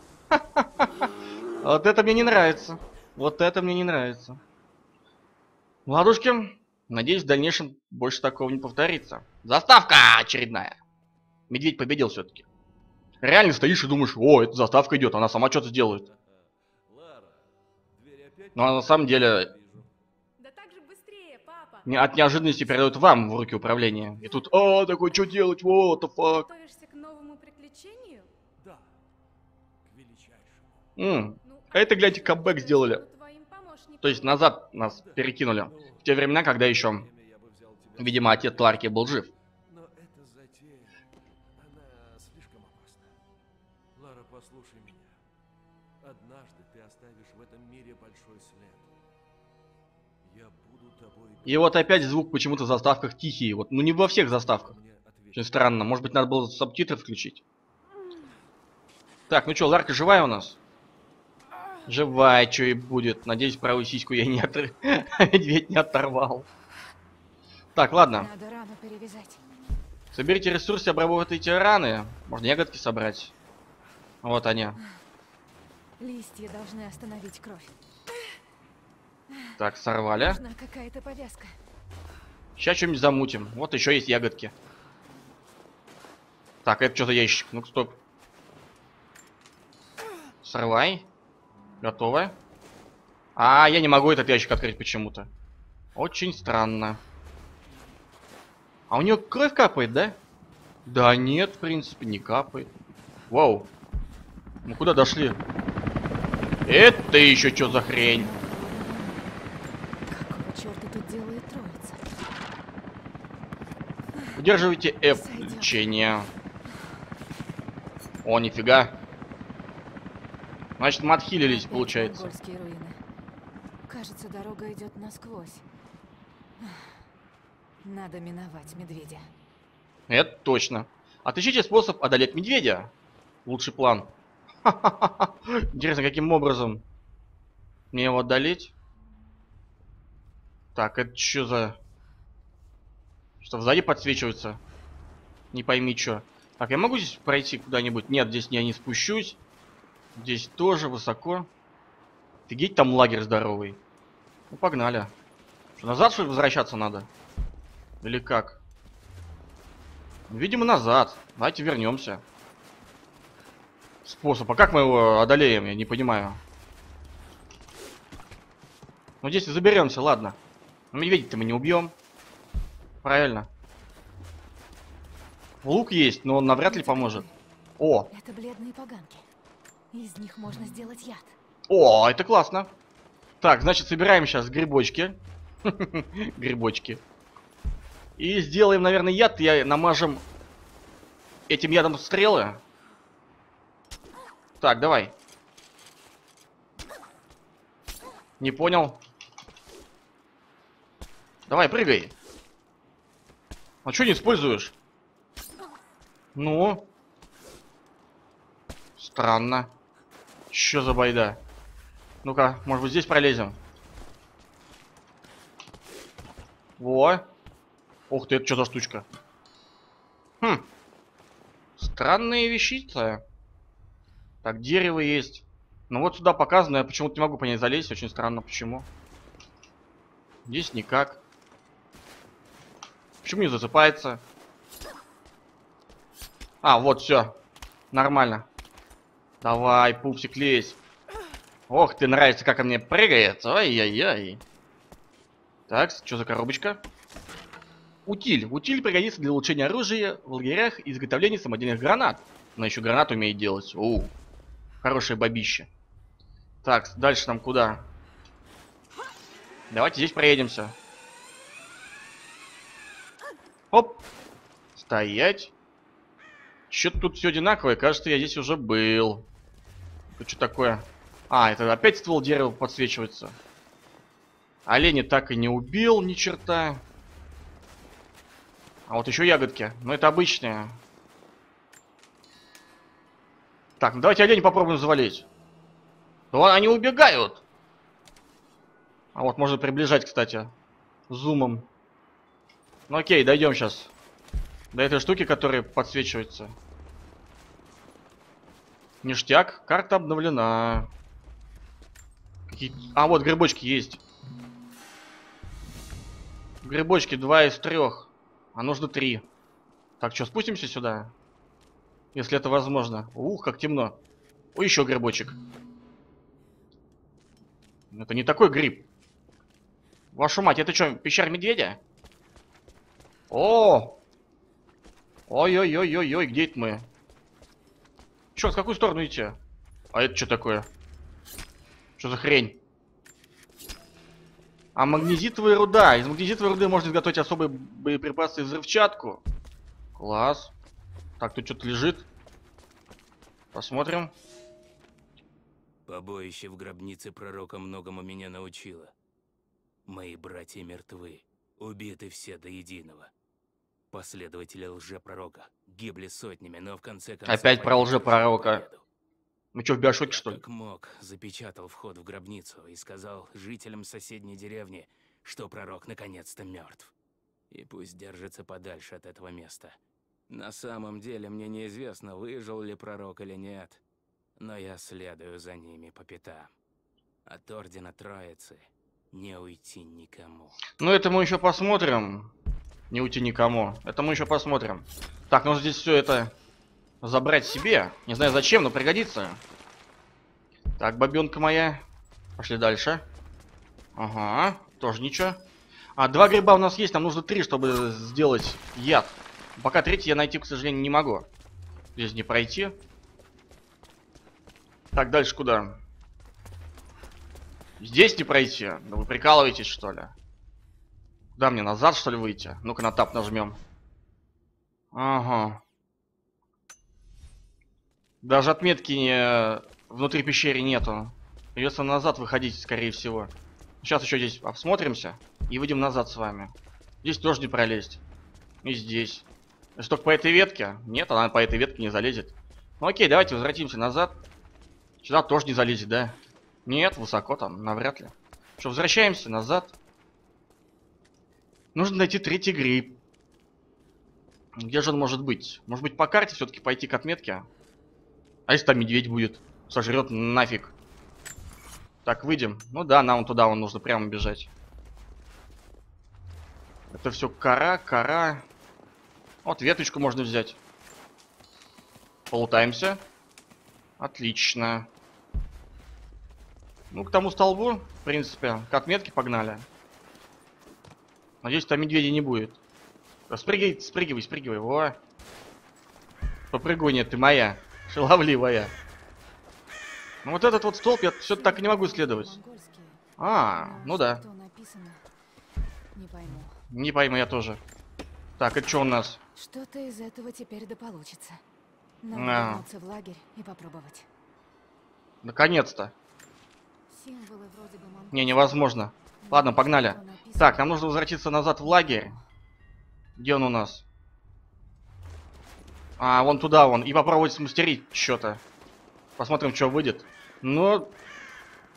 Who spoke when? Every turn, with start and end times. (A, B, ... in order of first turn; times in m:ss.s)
0:00.3-0:01.1 A
0:01.6-0:04.4 A
0:05.9-0:10.8 A
0:11.5-0:12.5 A
0:13.2-0:16.1 A
0:16.0-0:19.9 B
0:18.6-0:19.5 A
0:20.4-0:21.9 C
0:21.8-0:26.5 A
0:26.4-0:28.3 C
0:28.6-0:28.9 B
0:29.8-0:30.9 B
0:31.0-0:33.0 A
0:31.4-0:34.4 C
0:34.0-0:37.1 A
0:34.9-0:38.7 B
0:38.0-0:39.3 A
0:39.7-0:41.0 B
0:41.6-0:43.2 B
0:44.0-0:45.2 B
0:46.0-0:49.0 B
0:50.2-0:51.8 B
0:51.4-0:54.8 A
0:54.4-0:55.7 B
0:55.3-0:57.4 A
0:59.3-1:00.6 A
1:01.9-1:06.5 A
1:07.8-1:08.3 A
1:08.1-1:09.4 D
1:10.1-1:13.3 A
1:14.2-1:14.8 A
1:16.0-1:17.7 D
1:19.6-1:20.4 A
1:20.2-1:21.6 D
1:22.6-1:24.5 A
1:26.6-1:28.0 A
1:30.4-1:31.1 A
1:31.8-1:32.4 A
1:33.4-1:35.3 A
1:36.0-1:37.0 A
1:38.9-1:40.2 A
1:40.9-1:42.7 A
1:43.3-1:43.7 A
1:44.6-1:45.4 A
1:46.7-1:48.3 A
1:48.0-1:49.4 D
1:50.1-1:52.0 D
1:54.4-1:56.3 A
1:55.1-1:55.9 D
1:58.2-1:59.0 A
2:00.8-2:02.3 A
2:01.5-2:03.0 D
2:03.9-2:05.6 D
2:06.6-2:07.0 D
2:07.8-2:09.3 D
2:10.1-2:12.9 A
2:13.4-2:14.1 A
2:14.6-2:16.8 A
2:17.9-2:18.7 A
2:20.8-2:21.8 A
2:23.4-2:24.6 A
2:25.5-2:29.4 A
2:30.2-2:31.5 A
2:32.5-2:33.8 A
2:34.5-2:35.1 A
2:35.8-2:37.1 A
2:38.0-2:38.6 A
2:40.3-2:42.2 A
2:44.0-2:46.4 A
2:49.2-2:50.4 A
2:50.9-2:51.9 A
2:53.0-2:53.5 A
2:55.6-2:57.2 A
2:56.6-2:57.3 D
2:57.8-2:58.1 A
2:58.1-2:59.3 D
2:59.9-3:01.4 D
3:01.7-3:02.7 A
3:03.4-3:07.0 A
3:08.2-3:10.2 A
3:11.5-3:12.6 A
3:14.6-3:15.1 A
3:18.4-3:19.0 A
3:21.5-3:22.1 A
3:23.8-3:24.7 A
3:26.4-3:26.9 A
3:29.0-3:29.7 A
3:30.5-3:31.4 A
3:32.2-3:33.6 A
3:36.8-3:37.3 A
3:38.1-3:39.1 A
3:40.4-3:40.7 A
3:41.8-3:43.2 A
3:44.4-3:48.9 A
3:50.5-3:51.2 A
3:53.2-3:54.2 A
3:56.6-3:57.4 A
3:57.9-3:58.5 A
3:59.4-4:00.8 A
4:01.7-4:04.4 A
4:05.7-4:06.8 A
4:08.1-4:14.1 A
4:14.8-4:15.7 A
4:16.6-4:17.9 A
4:19.7-4:20.8 A
4:23.7-4:24.0 A
4:24.8-4:25.5 A
4:26.7-4:29.3 A
4:30.1-4:33.4 A
4:34.7-4:36.8 A
4:38.9-4:40.8 A
4:43.8-4:45.3 A
4:46.3-4:47.4 A
4:49.2-4:50.5 A
4:51.1-4:51.7 A
4:52.9-4:53.9 A
4:54.7-4:56.6 A
4:59.0-5:00.9 A
5:02.5-5:04.0 A
5:06.6-5:09.2 A
5:10.0-5:11.1 A
5:12.1-5:14.0 A
5:14.6-5:15.4 A
5:17.9-5:18.9 A
5:20.1-5:21.8 A
5:23.3-5:24.0 A
5:25.3-5:26.9 A
5:28.4-5:29.4 A
5:29.9-5:30.7 A
5:32.0-5:32.6 A
5:34.8-5:39.2 A
5:40.0-5:40.5 A
5:41.2-5:42.1 A
5:43.5-5:44.1 A
5:45.9-5:48.9 E
5:49.9-5:53.1 E
5:53.9-5:58.8 E
5:57.3-5:58.6 A
5:59.5-6:00.4 A
6:00.1-6:06.9 E
6:07.5-6:09.8 E
6:10.3-6:13.8 E
6:14.4-6:16.5 E
6:17.3-6:20.6 E
6:20.8-6:22.3 A
6:22.9-6:26.3 A
6:27.0-6:29.4 A
6:30.8-6:31.8 A
6:32.4-6:33.0 A
6:34.0-6:35.4 A
6:36.0-6:41.3 A
6:42.0-6:42.8 A
6:44.9-6:45.8 A
6:47.8-6:50.1 A
6:51.4-6:53.6 A
6:54.9-6:55.6 A
6:58.2-7:08.0 A
7:08.6-7:14.2 A
7:15.0-7:19.7 A
7:21.7-7:23.0 A
7:24.6-7:27.5 A
7:28.5-7:30.7 A
7:32.0-7:34.5 A
7:36.9-7:38.4 A
7:39.4-7:40.6 A
7:42.3-7:43.0 A
7:44.0-7:44.9 A
7:46.9-7:49.7 A
7:51.4-7:52.6 A
7:53.3-7:55.0 A
7:56.5-7:58.8 A
8:00.2-8:02.4 A
8:01.3-8:03.0 D
8:03.2-8:04.2 A
8:03.6-8:05.0 D
8:05.9-8:06.6 D
8:06.7-8:07.6 A
8:08.4-8:09.2 A
8:09.4-8:11.4 D
8:12.0-8:14.1 D
8:12.1-8:12.7 A
8:15.2-8:15.9 A
8:16.9-8:20.7 D
8:18.1-8:22.2 A
8:23.2-8:23.8 A
8:26.0-8:28.4 A
8:29.2-8:30.9 A